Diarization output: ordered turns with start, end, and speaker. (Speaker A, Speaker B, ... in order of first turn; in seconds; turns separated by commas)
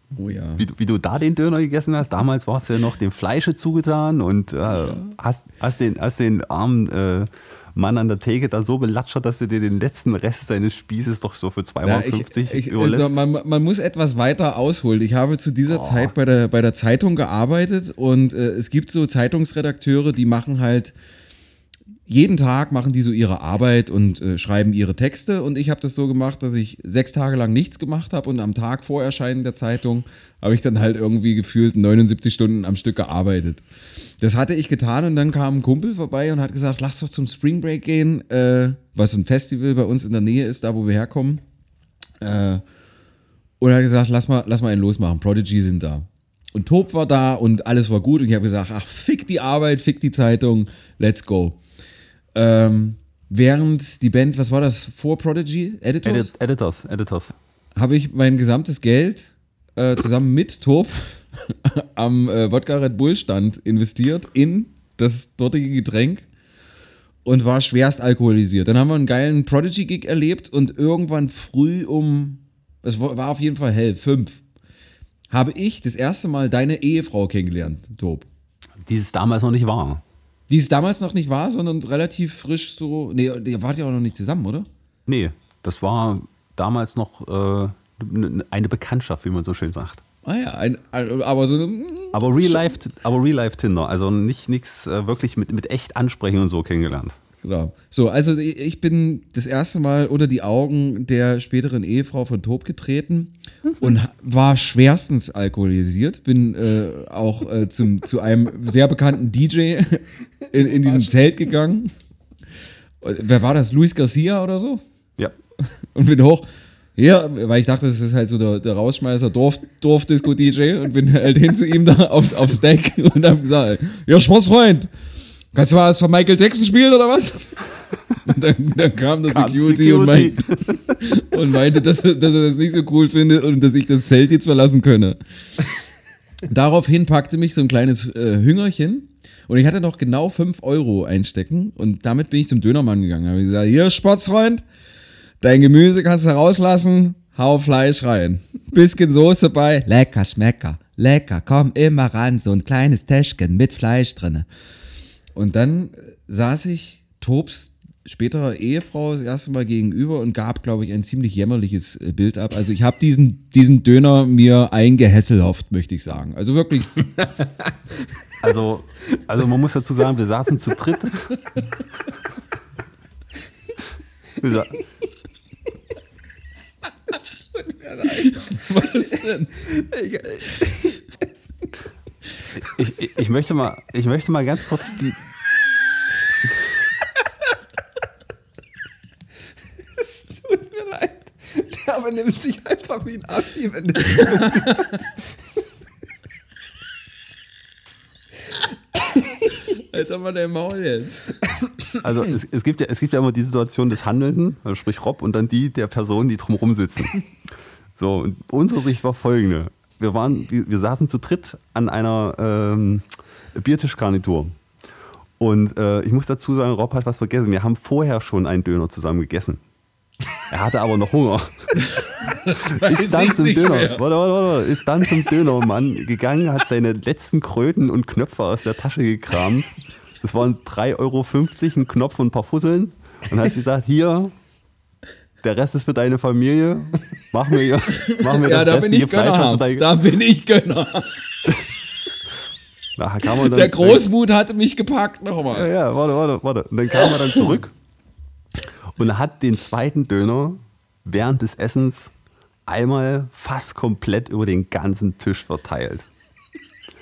Speaker A: 0.2-0.6, Speaker B: 0.6-13.2, Speaker A: 4.8-5.1, Speaker A: 11.8-20.9, Speaker B: 15.7-16.1, Speaker A: 22.1-33.6, Speaker A: 34.2-41.4, Speaker A: 42.2-42.6, Speaker A: 43.6-51.6, Speaker A: 52.4-56.3, Speaker B: 56.0-57.3, Speaker A: 57.8-66.2, Speaker A: 67.2-74.4, Speaker A: 75.3-78.3, Speaker B: 78.8-80.0, Speaker A: 80.5-84.7, Speaker B: 85.1-90.0, Speaker A: 90.2-92.8, Speaker B: 92.1-97.2, Speaker A: 97.4-111.9, Speaker C: 110.6-111.1, Speaker A: 113.0-114.8, Speaker A: 115.9-124.9, Speaker A: 125.5-127.6, Speaker A: 128.2-130.5, Speaker B: 129.3-131.0, Speaker A: 131.0-135.2, Speaker A: 136.4-144.6, Speaker A: 145.4-154.5, Speaker A: 155.3-167.4, Speaker B: 168.4-171.4, Speaker B: 174.4-174.8, Speaker C: 177.5-179.0, Speaker A: 178.2-179.6, Speaker C: 179.6-181.7, Speaker B: 182.6-185.2, Speaker C: 190.0-195.1, Speaker A: 199.4-201.4, Speaker B: 202.0-207.2, Speaker B: 208.0-214.6, Speaker B: 215.4-219.6, Speaker B: 220.5-221.8, Speaker A: 221.8-224.0, Speaker B: 222.7-234.3, Speaker B: 235.4-240.0, Speaker A: 237.9-241.3, Speaker B: 243.0-244.1, Speaker A: 243.3-245.7, Speaker B: 245.5-247.7, Speaker A: 247.0-247.5, Speaker B: 248.9-252.1, Speaker B: 252.7-256.1